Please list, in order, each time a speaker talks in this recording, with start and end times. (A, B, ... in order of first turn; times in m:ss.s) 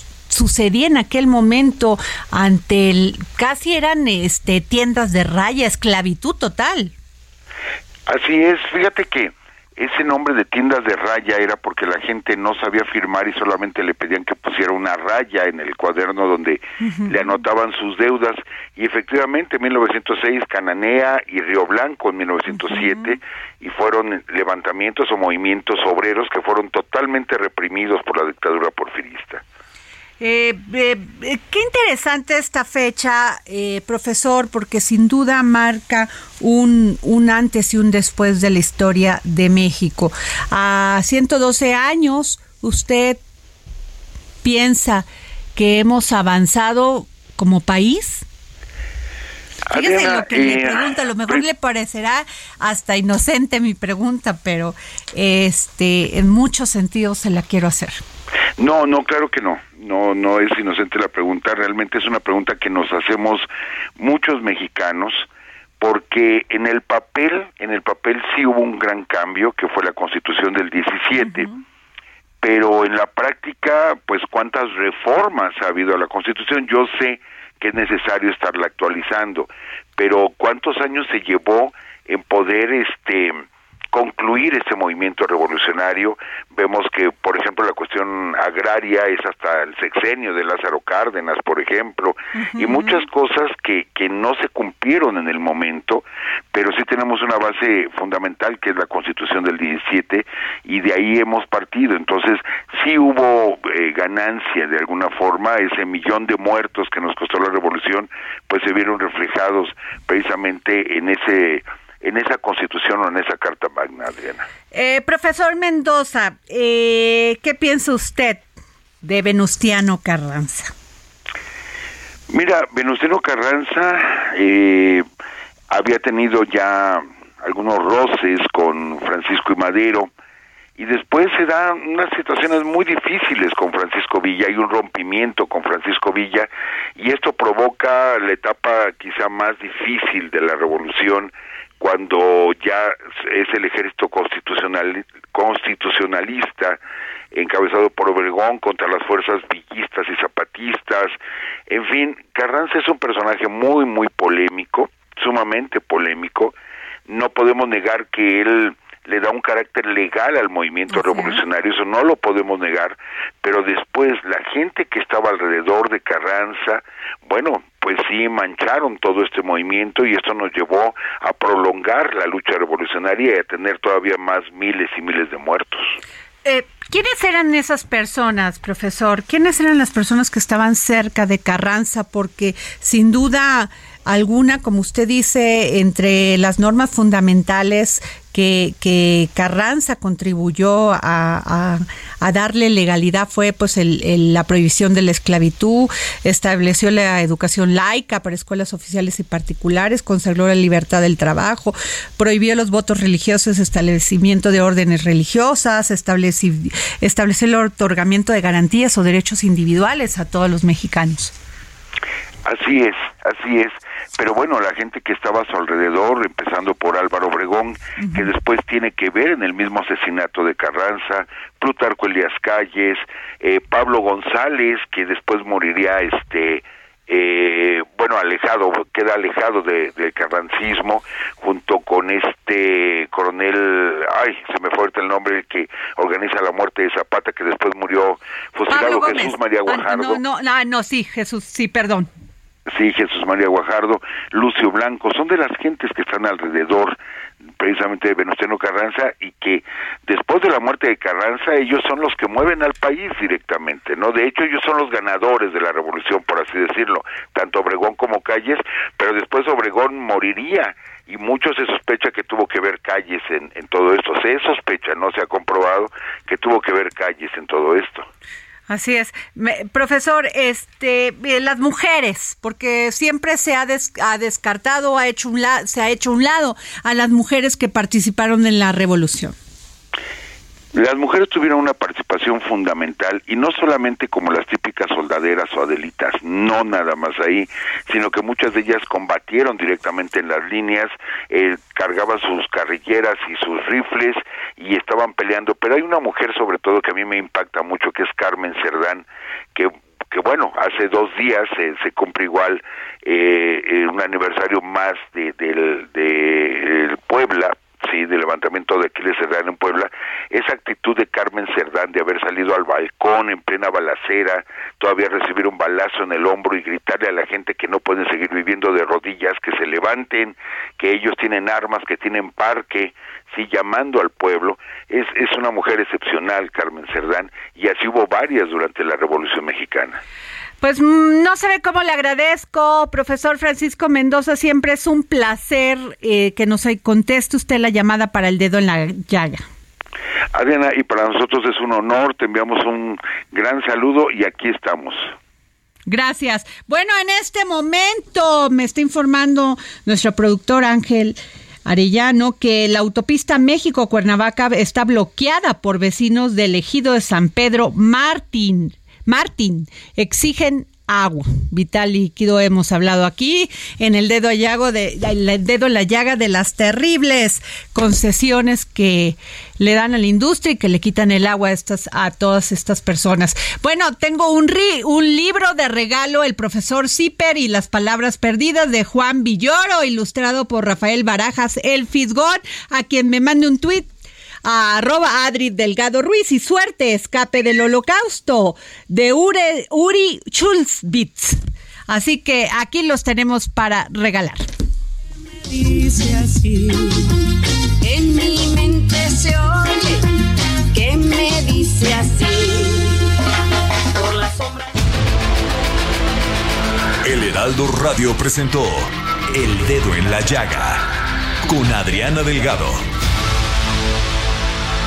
0:00.3-0:06.9 A
0:08.1-0:29.4 B
0:16.8-0:17.2 A
0:22.5-0:23.2 A
0:30.2-0:43.2 A
0:44.4-0:48.2 A
0:49.7-0:51.4 B
0:49.7-0:58.0 A
0:58.6-1:05.3 B
1:05.8-1:11.5 B
1:11.2-1:11.6 A
1:12.4-1:54.4 B
1:32.4-1:33.0 A
1:54.7-1:58.4 A
1:59.0-2:00.7 A
2:02.3-2:05.0 B
2:05.7-2:10.1 B
2:10.8-2:26.8 B
2:27.3-2:36.5 B
2:37.1-2:56.0 B
2:40.9-2:41.4 A
2:56.4-3:31.3 A
3:32.4-4:00.2 B
3:38.0-3:38.3 A
3:58.7-4:02.1 A
4:02.7-4:07.0 B
4:07.6-4:28.0 B
4:28.7-4:39.3 A
4:40.7-5:30.0 B
5:30.6-5:39.4 A
5:40.3-5:45.1 B
5:45.9-6:23.9 A
6:24.4-6:34.5 A
6:35.5-6:37.1 C
6:37.8-6:40.1 C
6:40.7-6:43.0 C
6:43.9-6:44.7 C
6:47.0-6:50.8 D
6:51.4-6:52.8 D